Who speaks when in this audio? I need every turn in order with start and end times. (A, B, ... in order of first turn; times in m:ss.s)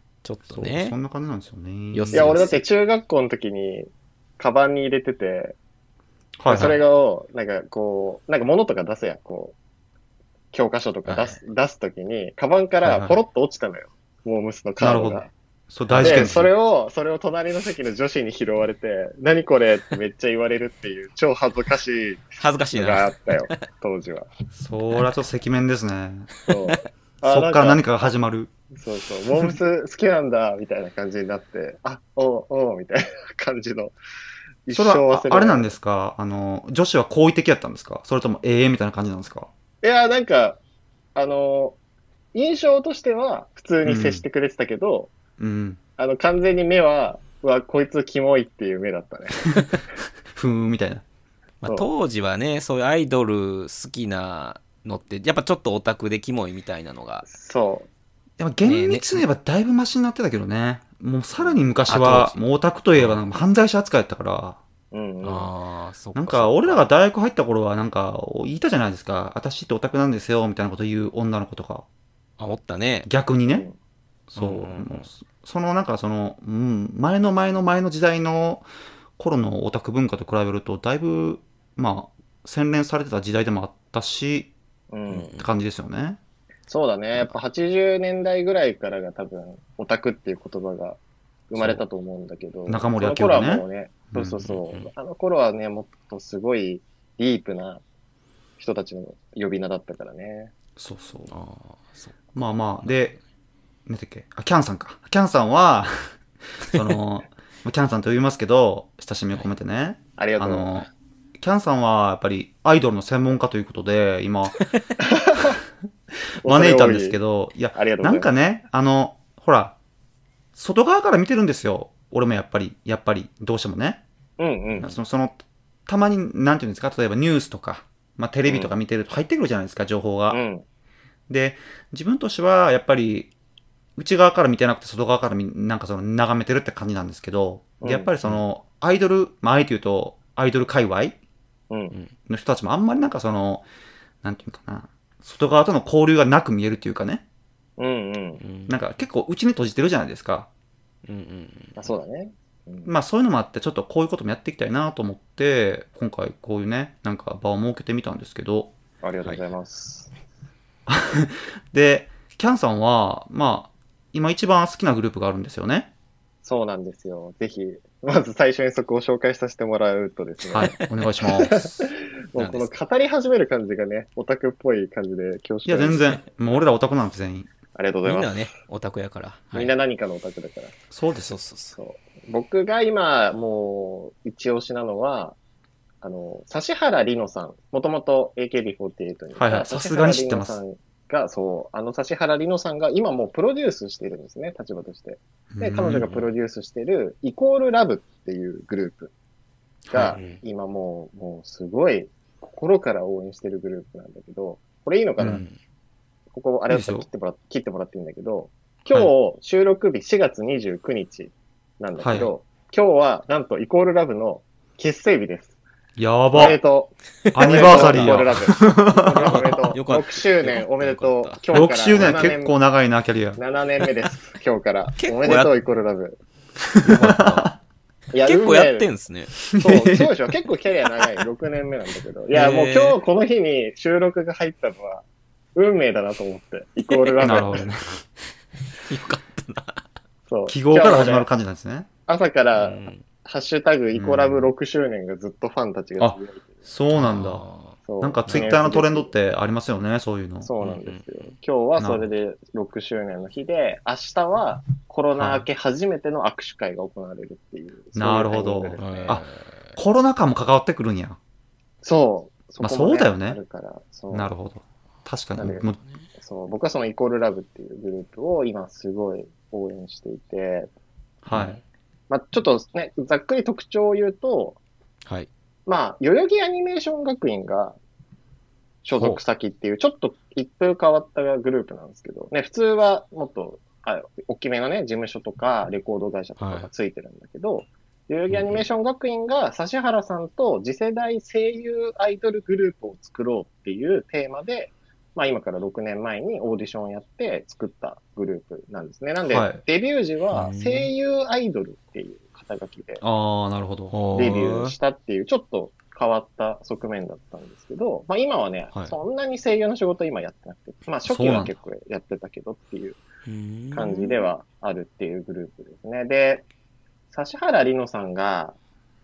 0:00.2-0:00.9 A
0:00.5-0:02.4 B
0:01.9-0:02.6 A
0:02.1-0:05.6 C
0:06.4-0:06.8 B
0:06.5-0:09.5 C
0:06.5-0:06.8 A
0:10.5-0:15.3 C
0:11.0-0:11.4 A
0:14.8-0:16.5 B
0:15.9-0:16.3 A
0:16.0-0:24.3 C
0:22.4-0:23.6 A
0:24.5-0:26.3 B
0:26.4-0:27.9 C
0:27.2-0:28.5 B
0:28.7-0:34.0 C
0:34.6-0:35.7 C
0:34.7-0:39.5 B
0:39.8-0:40.6 C
0:41.1-0:41.8 C
0:42.3-0:45.1 C
0:43.8-0:44.2 B
0:45.4-0:45.8 B
0:46.0-0:49.5 C
0:50.3-0:51.0 B
0:51.6-0:57.2 A
0:57.2-0:57.9 C
0:58.4-1:04.6 B
0:58.6-0:59.2 A
1:01.9-1:02.4 A
1:02.9-1:03.2 A
1:04.9-1:05.5 C
1:05.2-1:06.9 A
1:06.1-1:11.8 B
1:12.4-1:13.1 A
1:13.0-1:13.7 B
1:13.5-1:13.8 C
1:14.3-1:18.6 B
1:14.4-1:15.1 A
1:19.2-1:24.5 B
1:24.9-1:25.4 C
1:25.3-1:26.2 B
1:26.7-1:37.8 C
1:32.7-1:34.4 B
1:34.5-1:34.9 A
1:38.6-1:40.5 C
1:40.8-1:41.3 B
1:41.3-1:43.0 A
1:42.4-1:43.2 B
1:43.9-1:54.6 B
1:50.2-1:50.7 C
1:55.0-1:55.6 C
1:56.4-1:59.8 B
1:56.4-1:57.2 C
1:57.7-1:58.3 C
2:00.6-2:04.0 B
2:04.4-2:04.9 C
2:04.8-2:10.4 B
2:08.5-2:08.7 C
2:10.3-2:10.6 C
2:11.3-2:13.3 B
2:14.0-2:21.2 B
2:17.8-2:18.1 C
2:21.7-2:21.9 C
2:22.3-2:23.6 B
2:24.2-2:27.2 B
2:27.8-2:28.4 C
2:28.4-2:29.0 A
2:28.7-2:30.5 B
2:31.0-2:31.9 A
2:31.8-2:32.9 C
2:32.8-2:38.7 B
2:39.0-2:40.1 C
2:40.9-2:45.9 B
2:46.4-2:50.8 C
2:50.5-2:51.6 B
2:51.4-2:56.2 C
2:52.4-2:52.7 A
2:55.6-2:57.5 B
2:57.7-2:58.5 C
2:58.0-2:59.7 A
2:59.5-3:00.7 C
3:00.9-3:01.4 B
3:01.3-3:01.8 A
3:01.7-3:05.4 C
3:06.0-3:19.1 C
3:09.4-3:10.6 B
3:15.5-3:16.0 B
3:19.8-3:20.2 B
3:19.9-3:25.4 C
3:20.0-3:20.4 A
3:25.2-3:25.4 B
3:25.2-3:25.5 A
3:26.3-3:35.5 C
3:26.7-3:27.0 B
3:32.0-3:32.3 B
3:36.0-3:36.6 B
3:36.3-3:42.5 C
3:37.2-3:38.4 A
3:37.3-3:39.4 B
3:39.0-3:42.3 A
3:41.5-3:43.4 B
3:43.4-3:46.2 C
3:45.0-3:45.5 A
3:46.8-3:47.5 B
3:46.8-3:47.5 A
3:48.1-3:48.9 C
3:48.2-3:49.4 A
3:49.5-3:50.1 B
3:49.6-3:55.0 C
3:52.3-3:53.0 A
3:55.5-3:57.6 C
3:56.9-3:57.4 A
3:57.2-3:58.0 B
3:58.7-3:59.8 A
4:00.3-4:01.3 C
4:00.5-4:01.9 B
4:02.1-4:06.6 C
4:02.6-4:03.0 A
4:03.9-4:04.5 B
4:06.0-4:07.4 B
4:06.9-4:08.6 A
4:07.8-4:09.1 C
4:08.0-4:10.5 B
4:10.4-4:19.2 C
4:10.6-4:11.3 A
4:11.8-4:12.1 B
4:17.9-4:21.2 B
4:18.8-4:19.8 A
4:21.8-4:24.3 C
4:22.6-4:23.4 B
4:24.1-4:25.8 B
4:25.4-4:25.6 C
4:26.2-4:30.7 C
4:31.2-4:31.6 B
4:31.3-4:31.6 A
4:32.1-4:34.6 C
4:35.6-4:37.8 C
4:38.8-5:03.0 C
4:38.9-4:39.2 A
4:46.4-4:46.7 A
4:48.3-4:48.6 A
4:59.2-4:59.6 B
5:00.3-5:00.9 A
5:03.0-5:04.4 B
5:03.9-5:04.7 A
5:04.1-5:13.0 C
5:11.0-5:11.6 B
5:13.2-5:14.2 A
5:13.7-5:16.4 C
5:17.1-5:18.6 C